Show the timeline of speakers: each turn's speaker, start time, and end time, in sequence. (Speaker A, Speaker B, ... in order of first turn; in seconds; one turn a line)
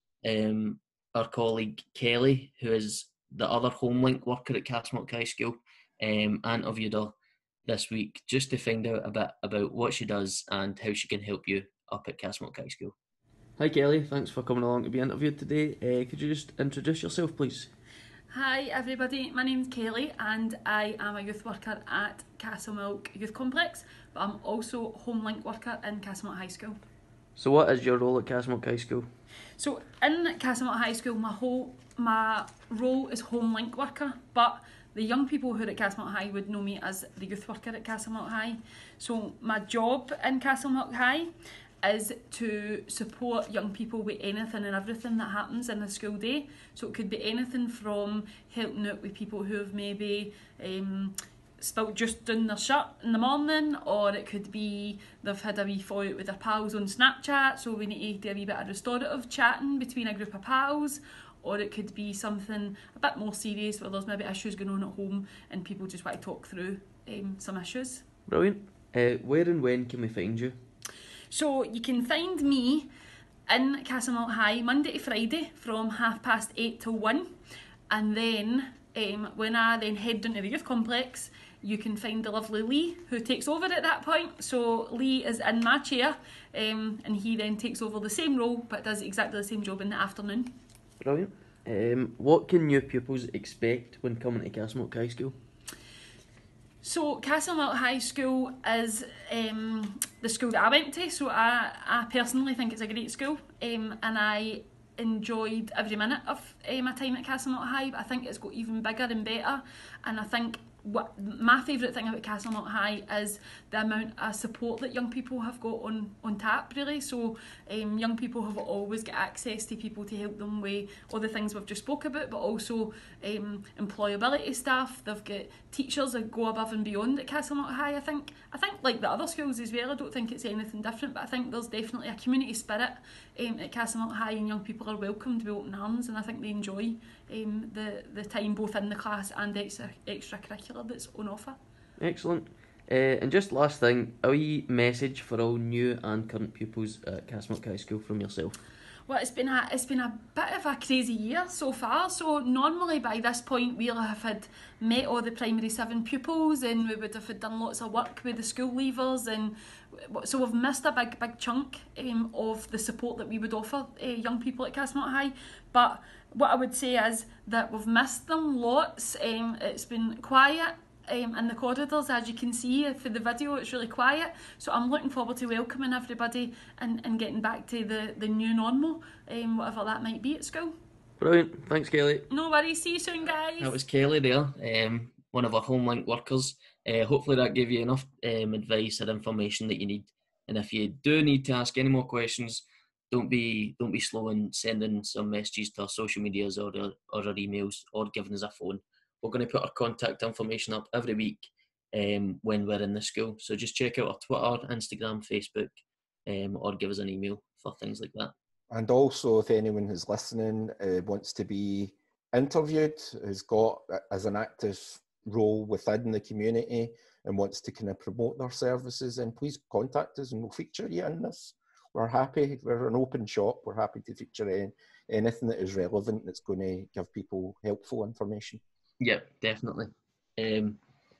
Speaker A: 0.2-7.2
Speaker A: 7.7-12.9
Speaker A: 13.6-17.7
Speaker B: 18.3-26.8
Speaker A: 27.4-29.1
Speaker B: 29.6-41.3
Speaker B: 41.8-68.1
Speaker A: 68.3-70.6
Speaker B: 71.3-72.9
Speaker B: 73.5-77.3
Speaker B: 77.9-90.5
Speaker A: 91.0-95.4
Speaker B: 96.8-141.6
Speaker A: 142.0-148.6
Speaker B: 149.1-180.8
Speaker A: 181.2-182.3
Speaker B: 182.3-183.8
Speaker A: 183.6-205.7
Speaker A: 206.3-208.3
Speaker C: 208.7-228.6
Speaker A: 229.0-230.8